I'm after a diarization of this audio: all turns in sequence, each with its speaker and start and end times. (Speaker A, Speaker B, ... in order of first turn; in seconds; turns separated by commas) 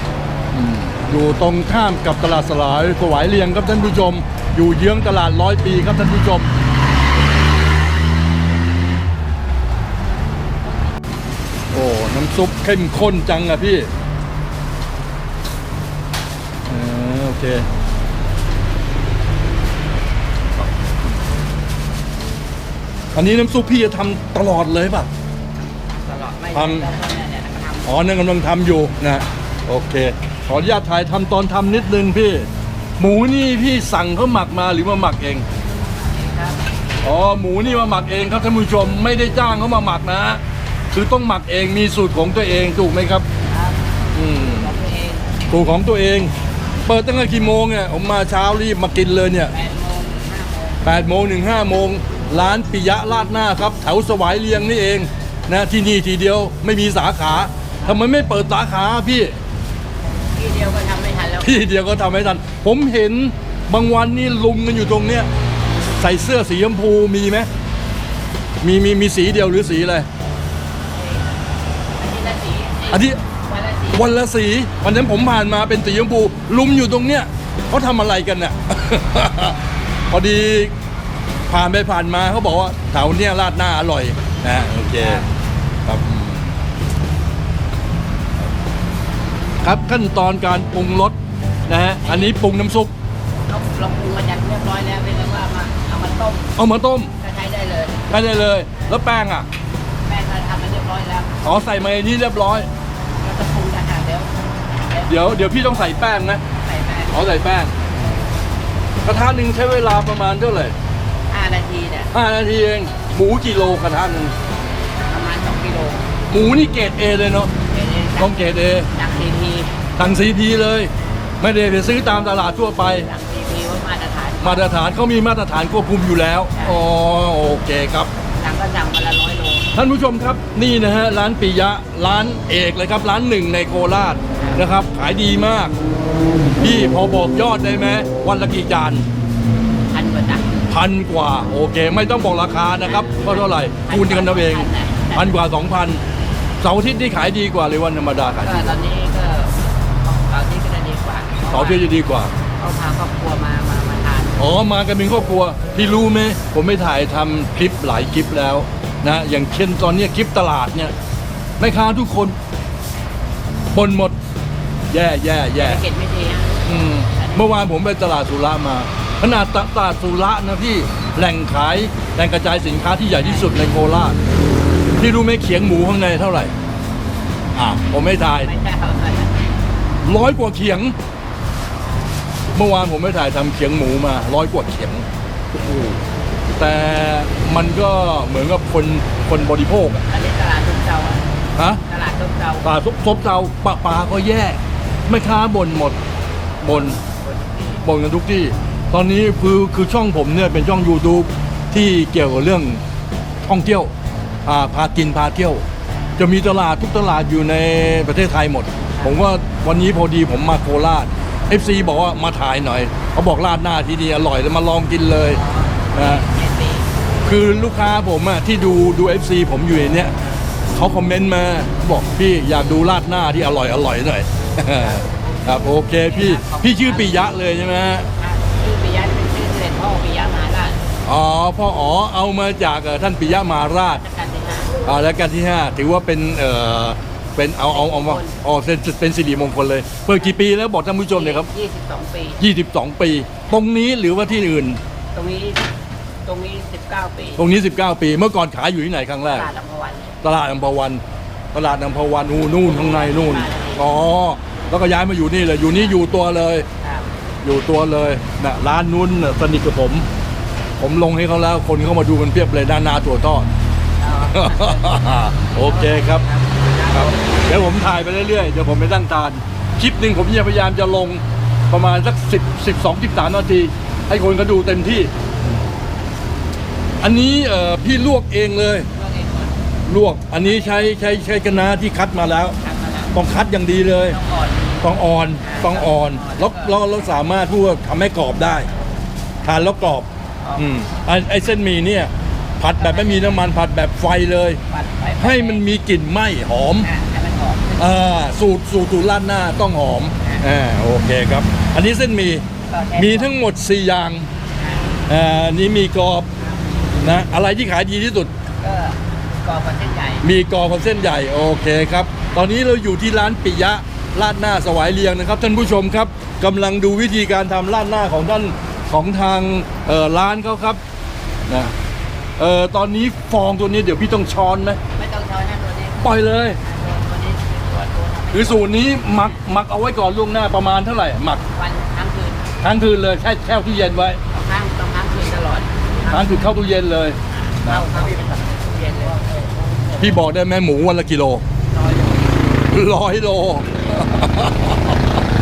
Speaker A: 0.5-6.5, Speaker A: 11.7-13.9, Speaker A: 16.7-17.7, Speaker A: 23.1-25.1, Speaker B: 25.9-28.0, Speaker A: 26.5-26.9, Speaker A: 27.8-35.5, Speaker B: 36.0-36.7, Speaker A: 37.0-40.4, Speaker A: 40.9-43.2, Speaker B: 43.5-45.2, Speaker A: 44.1-44.7, Speaker A: 45.5-46.3, Speaker A: 46.9-49.5, Speaker B: 49.5-50.8, Speaker A: 50.8-59.4, Speaker B: 60.3-61.7, Speaker A: 61.4-65.3, Speaker A: 65.9-67.5, Speaker A: 68.6-70.1, Speaker B: 70.9-71.3, Speaker B: 72.0-74.1, Speaker A: 72.9-73.2, Speaker A: 73.9-80.7, Speaker A: 81.5-85.2, Speaker B: 85.0-85.3, Speaker A: 85.8-86.5, Speaker A: 89.6-91.2, Speaker A: 91.7-92.9, Speaker B: 92.0-92.3, Speaker B: 93.5-96.5, Speaker A: 96.5-97.1, Speaker B: 97.2-98.2, Speaker A: 98.1-99.5, Speaker B: 100.0-101.4, Speaker A: 101.4-102.7, Speaker B: 103.2-105.6, Speaker A: 105.1-106.4, Speaker B: 106.6-107.1, Speaker A: 107.1-107.7, Speaker A: 109.0-110.7, Speaker B: 111.3-112.1, Speaker A: 112.1-114.3, Speaker B: 115.1-116.1, Speaker A: 116.3-117.5, Speaker B: 117.6-119.7, Speaker A: 118.2-118.9, Speaker A: 120.0-123.1, Speaker B: 122.9-124.8, Speaker A: 124.4-128.1, Speaker B: 126.5-126.8, Speaker B: 128.3-129.7, Speaker A: 129.7-135.7, Speaker A: 136.6-139.1, Speaker B: 139.9-140.6, Speaker A: 140.7-146.0, Speaker B: 142.8-145.3, Speaker A: 146.6-148.7, Speaker B: 148.4-151.9, Speaker A: 151.5-152.3, Speaker B: 152.6-154.4, Speaker A: 154.4-160.9, Speaker A: 161.6-162.3, Speaker A: 163.7-164.1, Speaker A: 164.9-165.8, Speaker B: 165.6-167.6, Speaker A: 166.6-174.2, Speaker B: 173.1-173.6, Speaker A: 175.0-176.5, Speaker A: 177.5-178.5, Speaker B: 178.4-179.4, Speaker A: 180.0-180.9, Speaker A: 182.5-185.0, Speaker A: 185.6-186.0, Speaker A: 186.6-190.0, Speaker B: 190.1-191.2, Speaker A: 191.6-191.8, Speaker B: 191.8-192.7, Speaker A: 192.6-196.0, Speaker A: 196.6-197.0, Speaker B: 196.6-197.8, Speaker A: 197.8-202.8, Speaker A: 203.4-203.9, Speaker A: 204.4-205.6, Speaker A: 206.2-215.4, Speaker B: 208.9-209.2, Speaker B: 215.2-216.9, Speaker A: 215.9-216.2, Speaker A: 217.2-220.1, Speaker A: 220.7-228.1, Speaker B: 224.7-227.6, Speaker B: 228.1-230.8, Speaker A: 231.0-234.0, Speaker B: 233.7-234.7, Speaker A: 234.8-241.5, Speaker B: 237.6-238.4, Speaker B: 241.1-242.4, Speaker A: 242.4-244.8, Speaker B: 245.1-245.7, Speaker B: 246.2-247.4, Speaker A: 247.4-249.5, Speaker B: 249.3-250.2, Speaker A: 250.2-251.0, Speaker A: 251.5-256.7, Speaker B: 252.6-253.9, Speaker B: 255.6-256.0, Speaker B: 256.8-257.1, Speaker A: 257.4-260.1, Speaker A: 260.8-263.5, Speaker B: 264.0-267.7, Speaker A: 264.2-266.2, Speaker A: 266.9-275.1, Speaker A: 277.0-278.9, Speaker B: 278.9-279.6, Speaker A: 279.9-282.6, Speaker B: 280.4-281.1, Speaker B: 282.6-283.1, Speaker A: 283.1-284.2, Speaker B: 284.0-287.2, Speaker A: 284.8-288.7, Speaker A: 289.4-294.6, Speaker B: 290.4-290.8, Speaker B: 292.8-293.5, Speaker B: 294.7-295.6, Speaker A: 295.2-296.9, Speaker B: 296.8-297.9, Speaker A: 297.8-304.3, Speaker B: 300.2-300.4, Speaker B: 302.7-303.3, Speaker B: 304.6-305.0, Speaker A: 305.1-306.3, Speaker A: 307.0-308.3, Speaker B: 308.6-310.2, Speaker A: 310.2-320.8, Speaker A: 321.5-321.7, Speaker A: 322.4-324.8, Speaker B: 324.9-326.1, Speaker A: 326.0-326.6, Speaker B: 326.6-328.8, Speaker A: 328.3-331.4, Speaker B: 331.5-332.5, Speaker A: 332.6-334.2, Speaker B: 334.3-336.4, Speaker A: 336.1-337.9, Speaker B: 337.6-340.2, Speaker A: 340.0-341.4, Speaker B: 341.7-342.7, Speaker A: 342.7-345.0